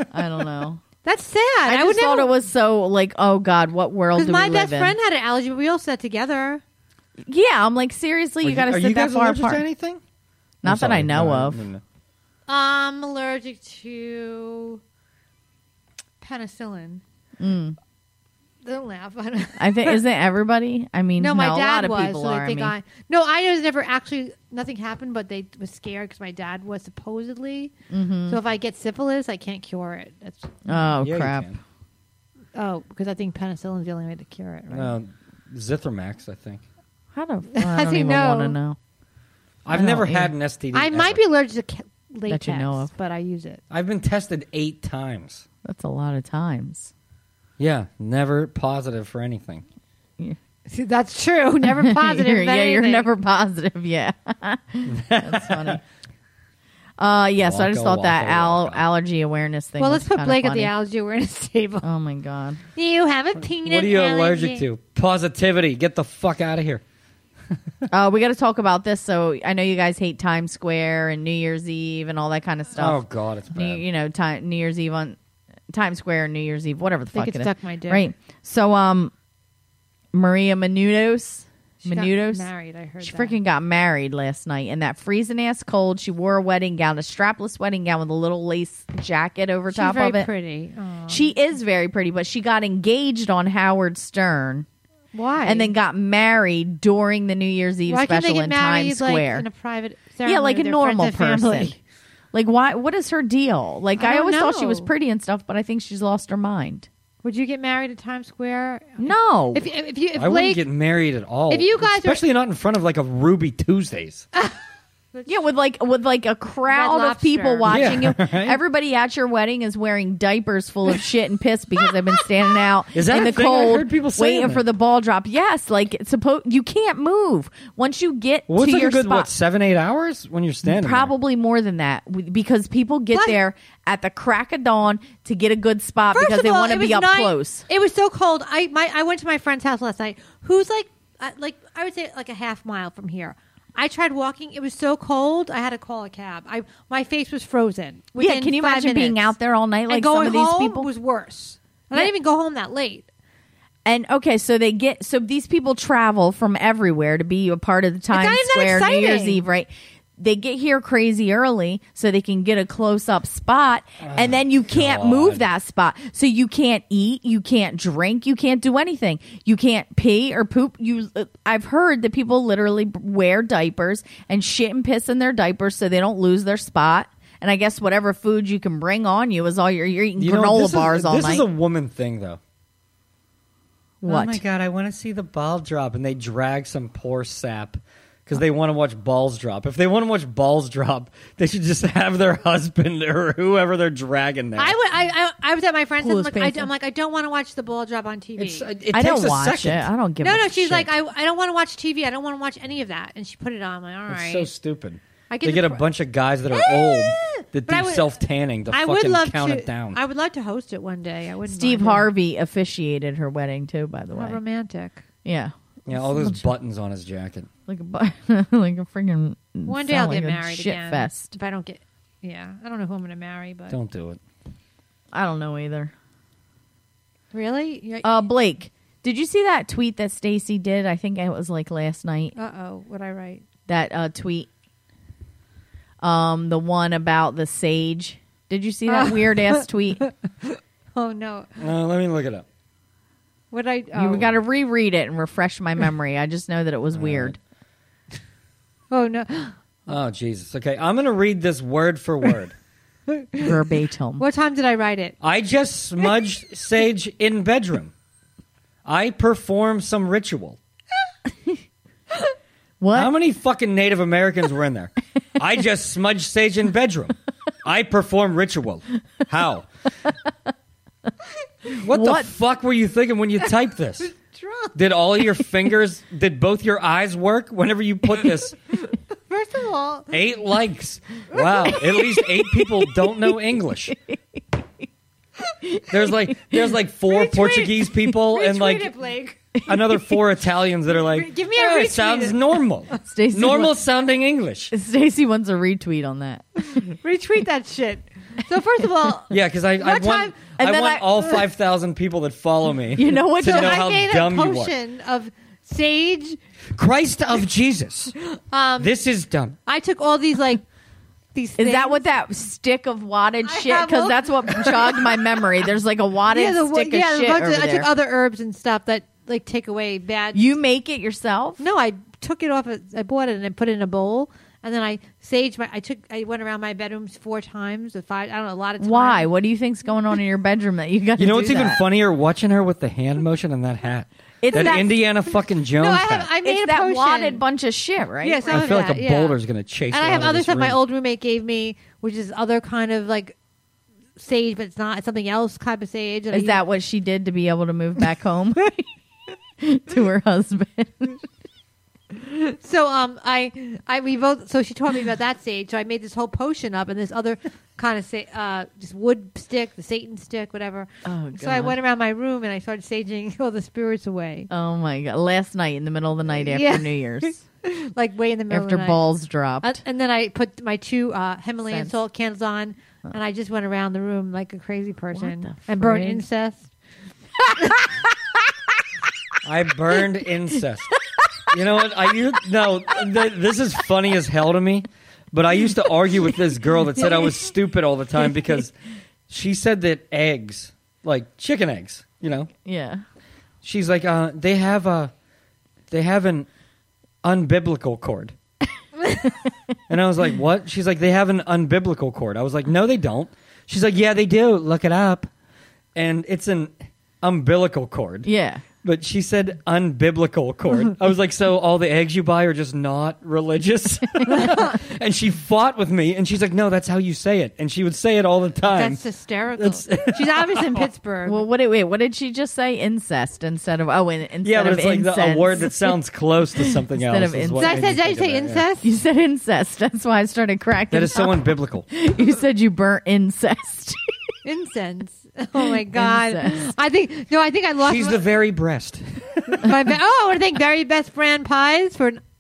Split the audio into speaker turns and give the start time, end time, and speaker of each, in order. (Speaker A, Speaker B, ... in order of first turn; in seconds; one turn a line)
Speaker A: 0.1-0.8
Speaker B: 1.0-2.3
Speaker A: 1.7-5.0
Speaker B: 4.2-6.6
Speaker A: 7.3-9.6
Speaker C: 8.4-10.0
Speaker A: 10.6-11.6
Speaker C: 10.6-11.8
Speaker B: 12.5-14.8
Speaker B: 16.2-17.0
Speaker A: 17.4-17.8
Speaker B: 18.6-20.0
Speaker A: 19.6-22.7
Speaker B: 21.2-27.7
Speaker A: 27.9-28.4
Speaker B: 28.3-30.5
Speaker A: 30.7-31.5
Speaker C: 31.0-31.6
Speaker B: 32.5-35.0
Speaker C: 34.7-36.6
Speaker A: 37.1-38.8
Speaker B: 37.5-38.6
Speaker C: 39.6-41.2
Speaker A: 39.7-40.3
Speaker B: 40.7-43.6
Speaker A: 42.3-42.9
Speaker C: 43.7-45.5
Speaker A: 45.6-46.9
Speaker C: 47.6-49.6
Speaker B: 50.7-53.1
Speaker A: 51.8-55.8
Speaker C: 54.9-55.8
Speaker A: 57.0-60.7
Speaker C: 57.4-58.9
Speaker B: 59.8-61.9
Speaker A: 61.8-62.6
Speaker B: 62.8-64.7
Speaker C: 63.5-66.8
Speaker A: 67.9-73.0
Speaker C: 72.8-73.8
Speaker A: 73.5-75.2
Speaker A: 75.7-79.1
Speaker B: 77.1-78.1
Speaker A: 80.1-82.5
Speaker B: 81.8-83.4
Speaker A: 83.0-90.3
Speaker B: 89.7-91.3
Speaker A: 91.1-94.7
Speaker B: 95.1-95.7
Speaker A: 95.5-99.5
Speaker B: 97.9-101.8
Speaker A: 100.2-101.8
Speaker A: 102.3-106.9
Speaker B: 104.0-104.9
Speaker B: 107.2-110.6
Speaker A: 109.0-109.7
Speaker C: 110.2-114.3
Speaker B: 111.5-112.2
Speaker B: 115.1-115.5
Speaker A: 115.3-129.3
Speaker B: 116.7-117.7
Speaker C: 117.7-118.6
Speaker C: 122.9-124.7
Speaker C: 128.5-131.1
Speaker A: 130.7-137.7
Speaker B: 136.1-149.3
Speaker A: 148.2-150.9
Speaker B: 149.9-153.1
Speaker A: 153.8-181.4
Speaker B: 158.1-159.4
Speaker C: 164.0-165.4
Speaker C: 180.2-182.4
Speaker A: 184.0-184.4
Speaker C: 184.1-194.8
Speaker B: 194.6-198.7
Speaker A: 196.0-196.7
Speaker C: 198.4-199.9
Speaker A: 198.9-200.9
Speaker B: 200.2-204.5
Speaker C: 204.1-210.0
Speaker B: 205.3-205.8
Speaker B: 206.5-208.2
Speaker B: 208.7-212.1
Speaker A: 211.5-214.4
Speaker B: 214.1-215.0
Speaker A: 215.2-216.5
Speaker C: 215.9-217.5
Speaker A: 217.7-221.3
Speaker B: 219.7-223.8
Speaker C: 223.7-224.2
Speaker A: 225.1-225.9
Speaker B: 227.3-228.3
Speaker A: 228.0-232.3
Speaker B: 232.3-233.4
Speaker A: 233.7-234.5
Speaker A: 236.0-240.0
Speaker B: 238.9-241.6
Speaker C: 241.6-242.4
Speaker B: 243.5-244.3
Speaker A: 244.0-247.4
Speaker C: 246.9-247.4
Speaker B: 248.9-249.6
Speaker C: 249.9-252.6
Speaker B: 253.1-253.6
Speaker A: 253.4-254.2
Speaker B: 254.2-255.2
Speaker C: 255.2-257.9
Speaker C: 258.9-260.6
Speaker A: 262.8-263.1
Speaker C: 262.9-269.7
Speaker C: 271.8-274.1
Speaker A: 271.9-272.3
Speaker B: 274.0-274.7
Speaker C: 274.8-278.6
Speaker B: 279.3-280.2
Speaker C: 280.1-284.0
Speaker A: 281.8-283.4
Speaker A: 283.9-284.4
Speaker A: 285.6-286.6
Speaker C: 285.9-288.9
Speaker B: 287.1-289.4
Speaker C: 289.7-294.7
Speaker A: 289.7-290.0
Speaker B: 290.9-293.0
Speaker A: 293.0-293.8
Speaker A: 294.7-296.8
Speaker B: 296.7-300.4
Speaker C: 299.3-304.7
Speaker A: 300.6-301.4
Speaker A: 302.9-303.8
Speaker B: 303.4-306.4
Speaker C: 306.8-308.1
Speaker B: 308.5-308.9
Speaker C: 308.8-309.6
Speaker B: 309.7-310.6
Speaker B: 311.3-312.0
Speaker A: 311.6-317.9
Speaker B: 313.4-315.4
Speaker B: 316.3-320.5
Speaker A: 320.3-321.6
Speaker B: 321.6-329.3
Speaker A: 328.8-331.8
Speaker C: 331.2-336.3
Speaker A: 334.4-334.9
Speaker B: 334.5-334.9
Speaker B: 335.8-337.4
Speaker A: 336.4-338.7
Speaker B: 338.2-339.4
Speaker C: 338.5-340.8
Speaker B: 339.9-343.4
Speaker B: 344.2-346.6
Speaker A: 346.3-348.9
Speaker A: 349.6-351.2
Speaker B: 352.2-364.5
Speaker A: 361.1-361.8
Speaker A: 364.5-367.4
Speaker B: 366.4-369.0
Speaker A: 368.5-369.8
Speaker B: 369.6-376.7
Speaker A: 371.7-372.0
Speaker A: 375.1-376.2
Speaker B: 377.6-377.8
Speaker C: 379.4-381.0
Speaker C: 381.5-388.7
Speaker C: 389.3-392.5
Speaker A: 392.6-393.0
Speaker C: 393.6-395.1
Speaker C: 395.9-396.5
Speaker C: 397.2-398.4
Speaker C: 399.9-405.3
Speaker C: 405.9-408.3
Speaker A: 408.2-408.6
Speaker C: 408.8-419.0
Speaker B: 414.3-414.6
Speaker B: 418.7-421.4
Speaker C: 419.6-420.9
Speaker A: 421.3-426.0
Speaker C: 424.4-428.7
Speaker A: 426.6-427.8
Speaker B: 427.6-428.9
Speaker A: 428.8-434.1
Speaker C: 430.9-431.9
Speaker B: 434.4-438.2
Speaker A: 435.9-436.7
Speaker C: 437.8-439.7
Speaker B: 439.5-442.2